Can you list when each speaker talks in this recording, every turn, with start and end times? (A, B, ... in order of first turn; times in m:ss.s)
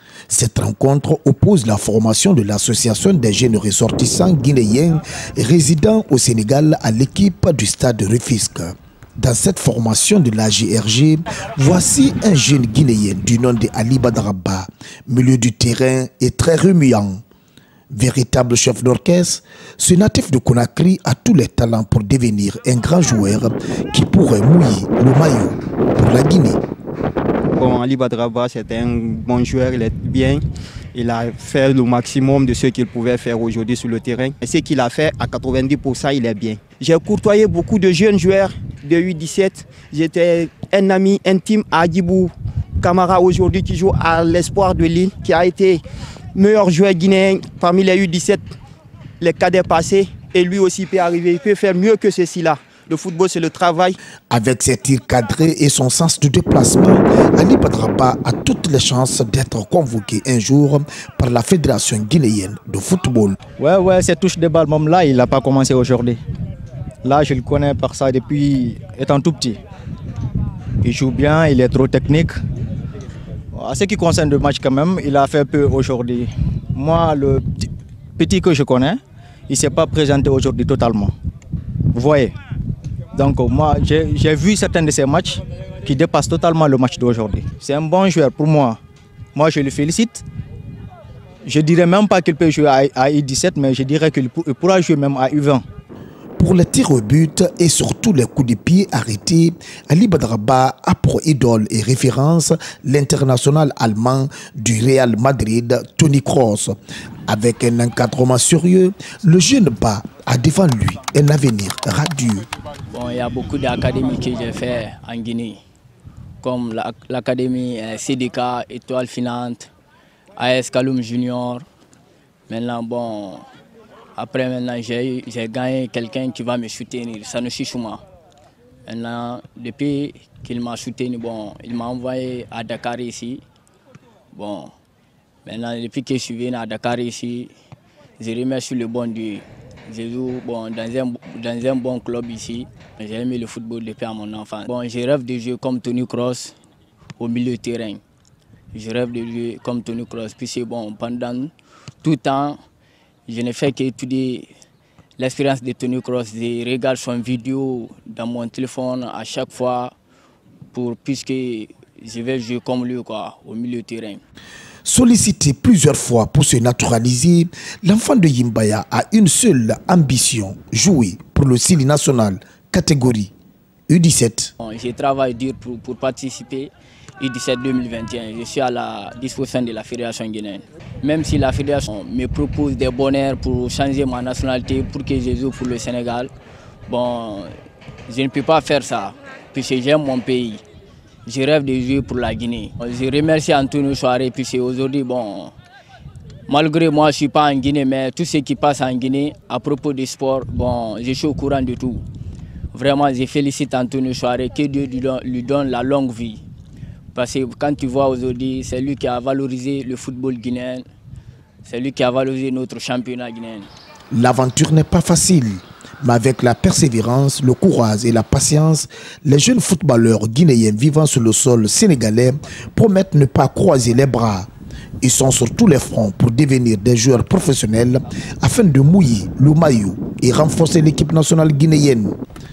0:00.3-0:17.2 A
0:17.9-0:26.6 A
0:27.6-0:45.8 B
0:46.3-0:48.5 B
0:49.2-0:54.0 B
0:54.3-1:03.4 A
1:03.6-1:06.2 C
1:07.0-1:09.6 C
1:10.8-1:12.4 C
1:13.5-1:21.1 C
1:21.9-1:22.3 C
1:23.2-1:28.8 C
1:29.3-1:30.2 C
1:31.4-1:35.6 C
1:36.4-1:52.5 A
1:52.9-1:55.6 D
1:56.4-1:59.7 D
2:00.4-2:01.6 D
2:02.5-2:03.4 D
2:04.2-2:08.0 D
2:08.8-2:13.4 D
2:14.3-2:14.7 D
2:15.4-2:17.5 D
2:18.2-2:26.5 D
2:27.2-2:28.0 D
2:28.7-2:32.6 D
2:33.3-2:34.5 D
2:35.2-2:39.9 D
2:40.7-2:44.2 D
2:44.8-2:53.3 A
2:53.9-2:54.5 A
2:54.6-3:06.3 D
3:06.9-3:07.5 D
3:08.1-3:10.6 D
3:11.2-3:15.5 D
3:16.5-3:22.0 D
3:22.7-3:26.4 D
3:27.1-3:30.8 D
3:31.6-3:33.7 D
3:34.1-3:44.5 A
3:45.0-3:52.2 A